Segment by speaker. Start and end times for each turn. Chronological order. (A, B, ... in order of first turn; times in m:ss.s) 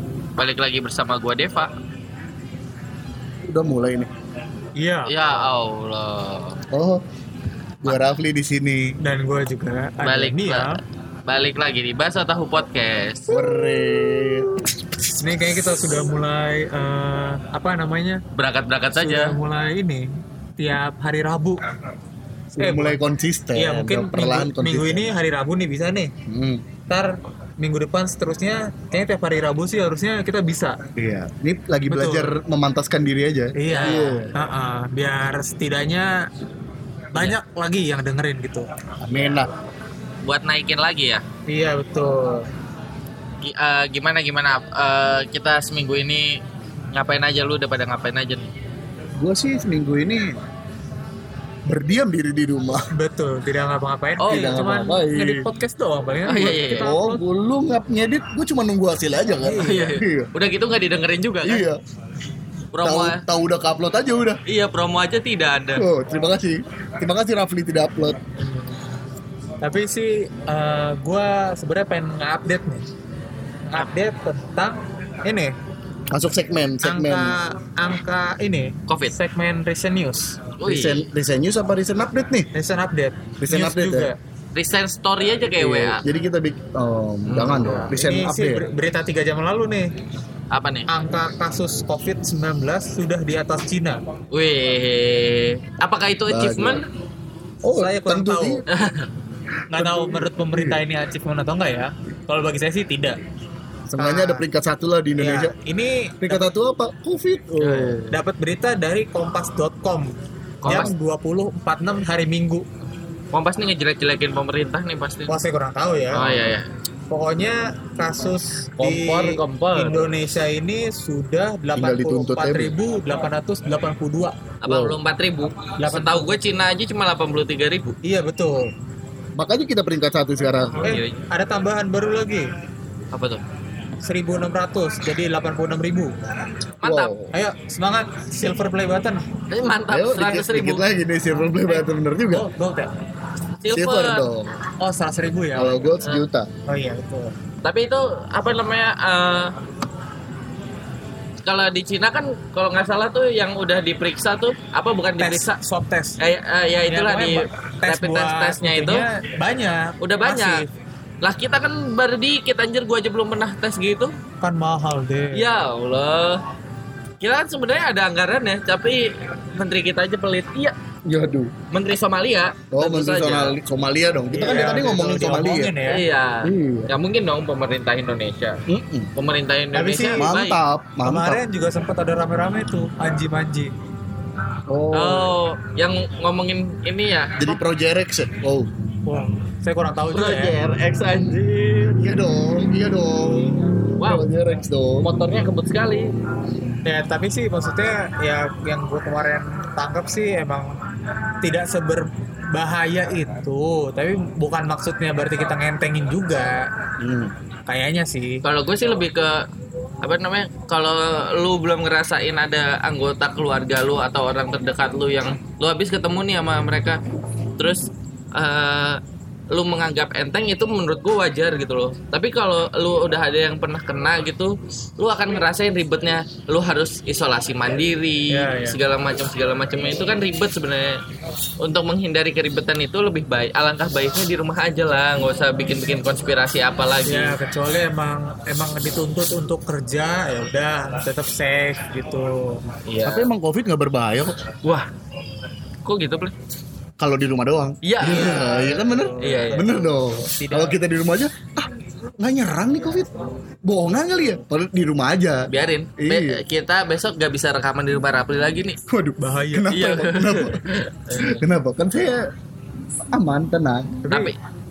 0:00.4-0:01.7 A
0:03.5-0:04.1 B
0:04.8-0:05.2 C
0:05.1-0:06.6 A
0:06.7-0:07.0 B
0:07.8-0:09.0 B
0:09.0-0:10.8 C
0:10.0-0:13.4 A
0:13.3-0:14.6 B
0:13.8-0:14.4 C
0:15.0-0:18.2 C
0:18.4-0:19.4 A
0:18.9-0:21.7 C
0:22.5-0:23.0 C
0:22.6-0:25.1 B
0:23.6-0:26.1 C
0:26.3-0:26.6 B
0:26.9-0:30.8 C
0:31.0-0:34.3 B
0:31.9-0:32.4 C
0:33.6-0:36.3 C
0:33.7-0:34.2 A
0:37.1-0:38.7 C
0:39.0-0:39.5 B
0:40.2-0:41.2 A
0:41.5-0:42.5 C
0:43.4-0:46.4 A
0:46.9-0:48.5 A
0:49.2-0:50.4 B
0:51.7-0:52.9 B
0:52.9-0:57.2 C
0:54.2-0:54.6 A
0:54.3-0:55.5 B
0:56.3-0:56.9 A
0:56.8-1:00.3 B
0:59.4-1:00.0 C
0:59.6-1:01.7 A
1:01.4-1:01.8 B
1:02.7-1:03.2 A
1:02.8-1:04.4 B
1:04.5-1:05.9 A
1:05.8-1:08.2 B
1:08.4-1:08.8 C
1:09.6-1:12.9 C
1:13.7-1:15.6 C
1:16.1-1:17.4 B
1:16.8-1:20.5 C
1:18.9-1:19.2 A
1:20.6-1:21.1 A
1:20.6-1:22.5 B
1:22.5-1:24.2 C
1:23.4-1:24.1 B
1:24.6-1:26.0 A
1:25.6-1:28.7 B
1:27.3-1:27.9 A
1:27.9-1:29.9 C
1:30.5-1:30.9 A
1:30.9-1:34.0 C
1:34.3-1:36.9 A
1:36.3-1:36.8 B
1:37.6-1:38.6 B
1:37.7-1:38.6 C
1:38.7-1:39.1 A
1:39.7-1:43.2 C
1:39.7-1:40.8 B
1:43.9-1:45.5 B
1:44.0-1:44.5 C
1:45.2-1:46.5 C
1:46.2-1:48.2 B
1:47.6-1:48.1 A
1:48.1-1:50.1 C
1:50.6-1:50.9 A
1:50.7-1:52.6 C
1:53.3-1:55.4 A
1:55.3-1:56.3 C
1:56.1-1:56.7 A
1:57.1-2:04.4 C
1:58.8-2:00.1 A
2:01.8-2:02.7 B
2:04.6-2:08.0 A
2:04.7-2:05.0 B
2:05.8-2:06.4 C
2:08.0-2:08.7 C
2:09.4-2:10.9 B
2:10.8-2:11.2 A
2:10.8-2:12.5 C
2:13.1-2:13.4 A
2:14.0-2:16.1 C
2:16.8-2:17.1 A
2:16.8-2:17.3 B
2:17.3-2:19.3 C
2:19.5-2:20.8 A
2:19.9-2:22.5 B
2:22.3-2:22.9 C
2:23.6-2:24.3 A
2:23.7-2:24.5 B
2:24.8-2:25.8 C
2:25.6-2:26.5 B
2:26.7-2:27.4 C
2:27.6-2:29.6 A
2:31.4-2:35.6 A
2:35.2-2:36.2 C
2:36.2-2:39.1 A
2:36.9-2:40.7 C
2:40.0-2:40.7 A
2:41.2-2:44.1 A
2:44.4-2:45.6 C
2:45.3-2:46.4 A
2:47.2-2:50.8 A
2:51.1-2:51.5 B
2:51.7-2:53.6 A
2:52.7-2:55.8 B
2:54.3-2:56.0 C
2:55.9-2:58.6 A
2:56.4-2:56.9 B
2:58.7-2:59.1 B
2:59.2-3:00.6 A
2:59.7-3:00.2 C
3:00.2-3:01.4 B
3:01.0-3:03.7 C
3:04.7-3:05.4 B
3:04.9-3:07.6 A
3:07.4-3:08.7 B
3:09.1-3:10.6 C
3:10.1-3:12.0 A
3:12.0-3:15.1 B
3:14.0-3:14.3 A
3:15.0-3:16.1 A
3:16.8-3:20.8 C
3:21.4-3:26.7 C
3:27.0-3:27.3 B
3:27.7-3:28.4 C
3:28.4-3:29.5 A
3:30.0-3:37.0 A
3:37.6-3:51.0 A
3:48.3-3:48.8 C
3:51.6-3:57.4 A
3:57.1-4:02.6 C
4:02.9-4:03.3 A
4:03.1-4:04.4 B
4:05.8-4:06.3 A
4:07.0-4:13.1 B
4:07.8-4:09.7 A
4:08.0-4:10.8 C
4:13.6-4:16.4 B
4:15.5-4:18.8 A
4:18.9-4:22.3 B
4:19.2-4:19.8 C
4:19.7-4:21.4 A
4:23.1-4:24.0 B
4:24.0-4:24.4 A
4:24.0-4:24.3 C